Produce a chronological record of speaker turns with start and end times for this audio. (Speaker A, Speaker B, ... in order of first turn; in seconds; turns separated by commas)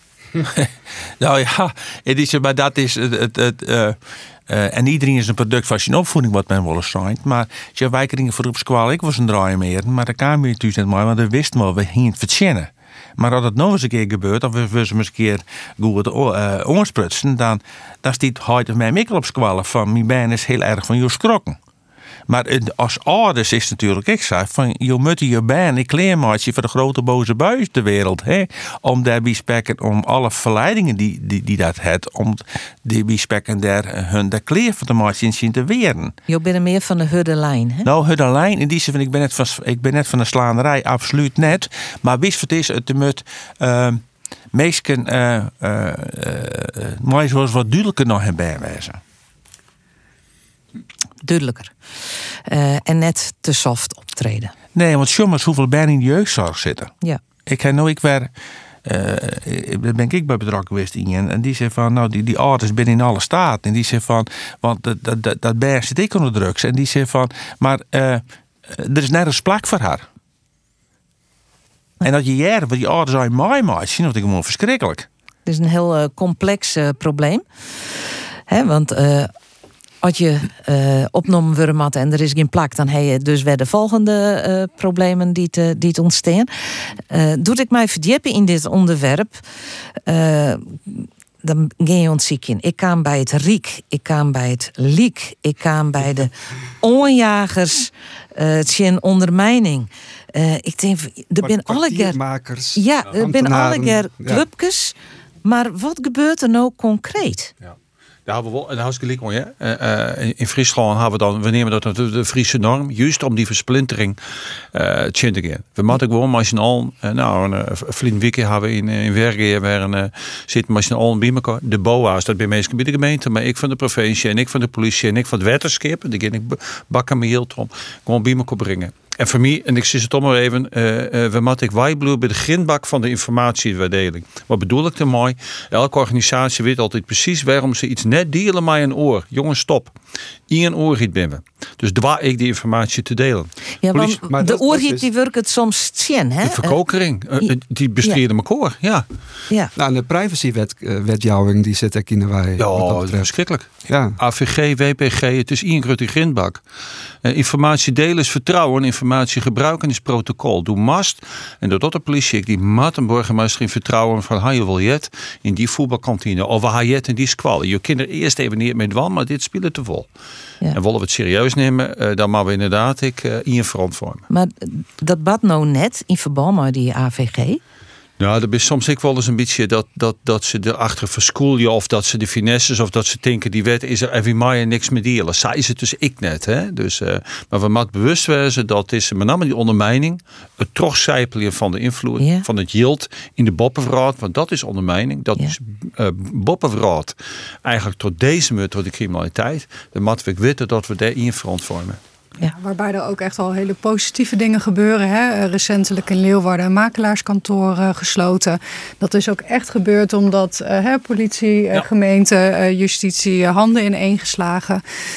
Speaker A: 0.4-21.6, Speaker A: 22.3-36.1, Speaker B: 36.3-37.9, Speaker A: 37.8-49.0, Speaker B: 51.2-51.8, Speaker B: 52.5-54.5, Speaker A: 54.7-56.9, Speaker A: 57.5-58.3, Speaker A: 58.8-70.0, Speaker A: 72.0-75.1, Speaker B: 75.5-77.4, Speaker B: 78.5-79.3, Speaker B: 80.0-89.4, Speaker B: 90.0-102.2, Speaker C: 101.4-104.4, Speaker B: 102.8-107.5, Speaker D: 107.6-114.2, Speaker D: 114.7-139.9, Speaker D: 140.5-143.5, Speaker B: 143.8-146.8, Speaker C: 143.9-145.1, Speaker D: 146.4-149.1, Speaker C: 149.8-153.3, Speaker D: 152.6-156.6, Speaker C: 153.9-154.2, Speaker D: 157.2-170.1, Speaker D: 170.7-174.2, Speaker B: 174.3-177.6, Speaker D: 178.2-202.0, Speaker B: 192.2-192.4, Speaker E: 202.4-214.8